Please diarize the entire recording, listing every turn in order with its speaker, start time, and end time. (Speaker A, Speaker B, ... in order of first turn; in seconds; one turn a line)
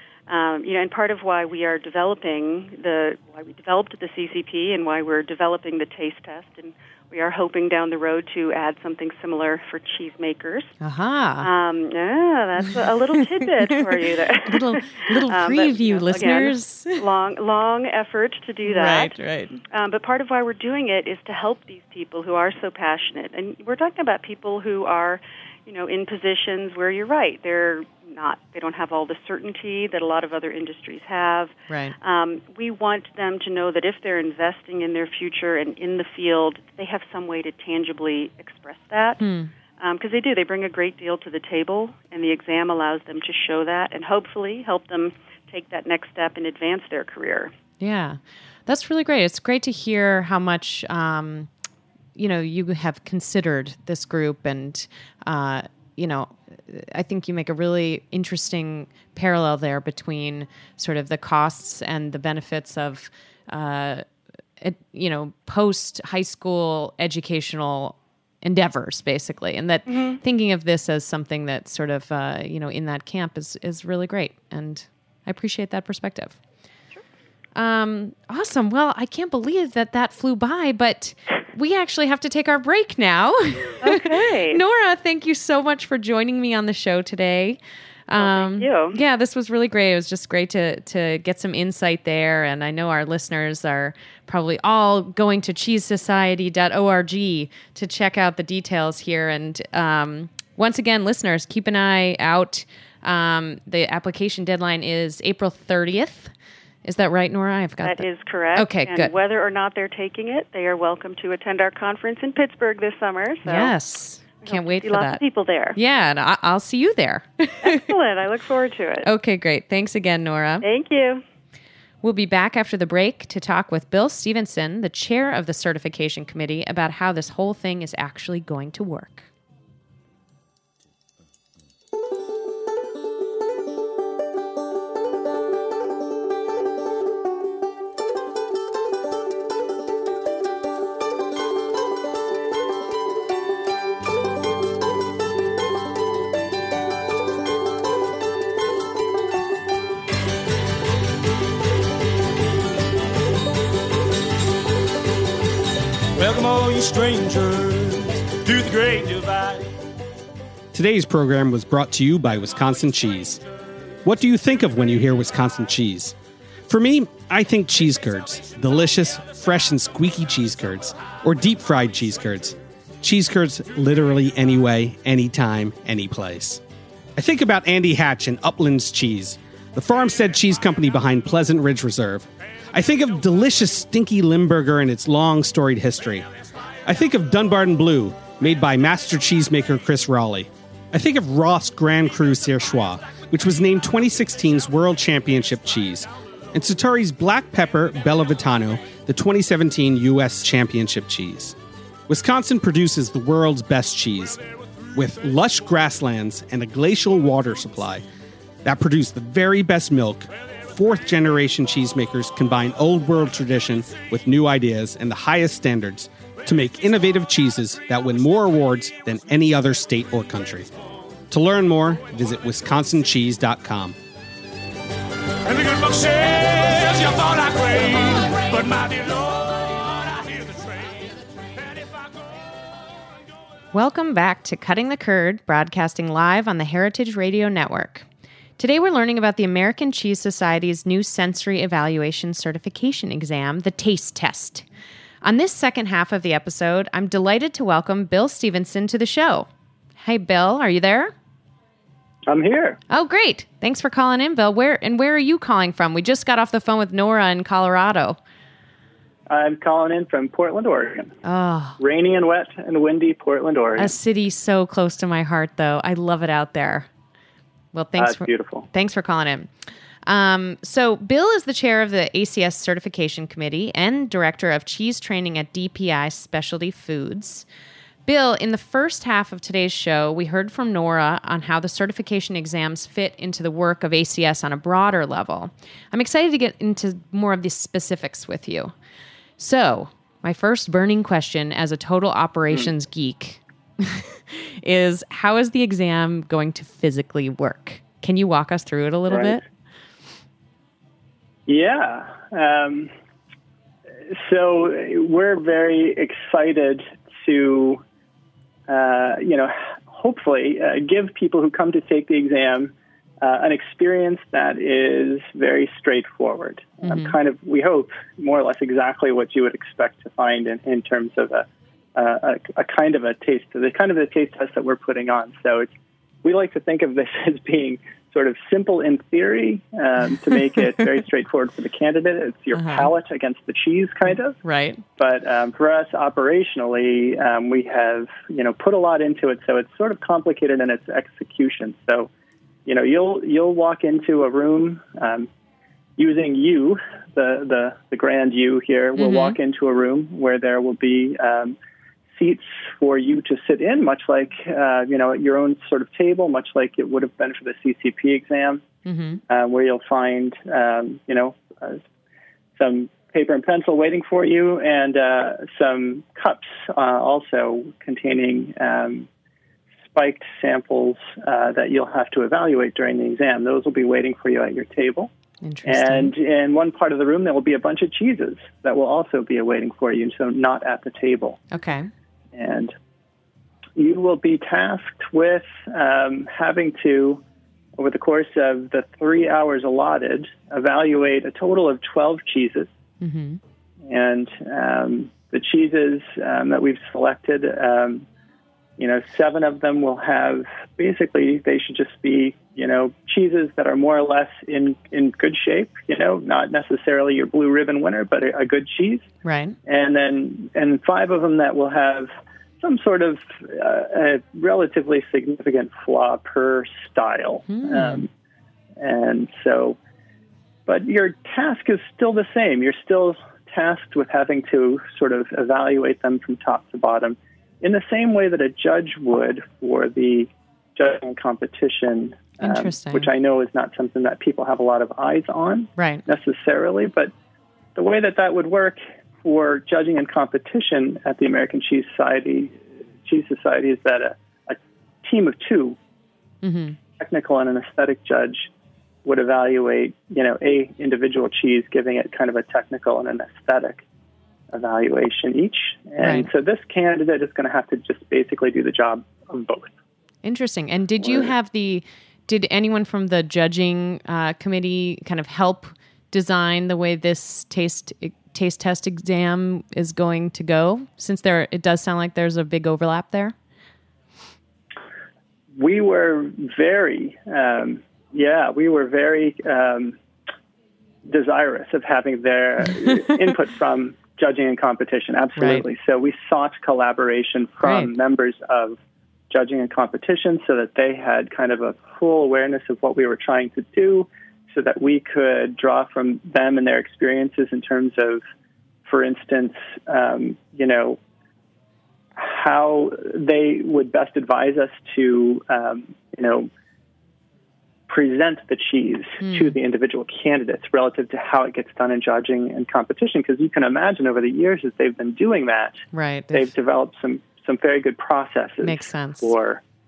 Speaker A: 0.3-10.7
Speaker B: 10.8-11.5
Speaker A: 11.4-39.2
Speaker B: 12.6-13.2
Speaker B: 14.4-17.1
Speaker B: 18.6-19.6
Speaker B: 31.7-31.9
Speaker B: 39.2-39.5
Speaker A: 39.8-47.5
Speaker B: 47.8-51.5
Speaker B: 52.1-64.0
Speaker B: 64.6-76.4
Speaker A: 69.9-70.2
Speaker B: 77.5-106.3
Speaker A: 83.8-84.6
Speaker A: 88.2-89.0
Speaker B: 106.8-108.0
Speaker A: 107.8-113.7
Speaker B: 108.6-109.1
Speaker B: 113.5-115.2
Speaker A: 114.4-115.8
Speaker B: 115.8-117.9
Speaker A: 117.6-119.1
Speaker B: 119.0-120.7
Speaker A: 120.6-121.2
Speaker B: 122.0-129.3
Speaker C: 156.2-159.7
Speaker D: 160.7-163.4
Speaker D: 164.0-166.2
Speaker D: 166.7-176.6
Speaker D: 177.2-186.3
Speaker D: 186.9-201.6
Speaker D: 202.1-204.4
Speaker D: 204.9-208.0
Speaker D: 208.6-220.7
Speaker D: 221.3-224.0
Speaker C: 225.5-230.9
Speaker B: 233.7-238.1
Speaker B: 238.6-244.7
Speaker B: 245.2-249.5
Speaker B: 250.0-251.1
Speaker E: 252.3-252.8
Speaker B: 252.9-258.2
Speaker E: 259.3-261.1
Speaker B: 261.2-261.8
Speaker E: 261.8-263.9
Speaker B: 263.8-266.9
Speaker B: 267.7-269.5
Speaker E: 268.0-268.7
Speaker B: 270.1-277.5
Speaker B: 278.1-288.7
Speaker B: 289.4-299.4
Speaker E: 299.1-299.4
Speaker E: 301.5-302.9
Speaker E: 304.1-307.8
Speaker E: 308.7-325.7
Speaker B: 316.8-317.1
Speaker E: 326.2-334.4
Speaker B: 332.5-332.9
Speaker B: 334.4-334.8
Speaker E: 335.0-342.1
Speaker E: 342.7-345.3
Speaker E: 346.0-351.6
Speaker B: 349.0-349.4
Speaker E: 352.2-358.6
Speaker B: 358.9-359.2
Speaker E: 359.3-361.8
Speaker E: 362.6-369.1
Speaker E: 369.9-375.1
Speaker B: 375.4-376.1
Speaker E: 375.6-381.4
Speaker B: 381.5-381.9
Speaker E: 382.4-382.7
Speaker E: 383.8-387.2
Speaker E: 387.8-392.7
Speaker B: 393.0-393.4
Speaker E: 393.9-398.1
Speaker E: 398.8-409.1
Speaker B: 409.2-409.6
Speaker E: 409.7-418.1
Speaker B: 417.5-418.1
Speaker E: 418.8-419.8
Speaker E: 420.7-437.1
Speaker B: 432.4-433.1
Speaker B: 435.8-436.1
Speaker E: 437.8-445.8
Speaker B: 446.4-446.8
Speaker E: 447.0-448.5
Speaker E: 449.1-453.8
Speaker E: 454.5-459.7
Speaker B: 456.0-456.3
Speaker B: 460.2-473.4
Speaker E: 461.0-461.3
Speaker E: 475.6-480.0
Speaker E: 481.1-488.8
Speaker B: 485.4-485.7
Speaker B: 487.6-487.9
Speaker E: 489.3-498.2
Speaker E: 498.9-501.0
Speaker E: 502.2-506.5
Speaker E: 507.9-519.6
Speaker B: 509.2-509.6
Speaker B: 515.9-516.5
Speaker B: 518.6-519.4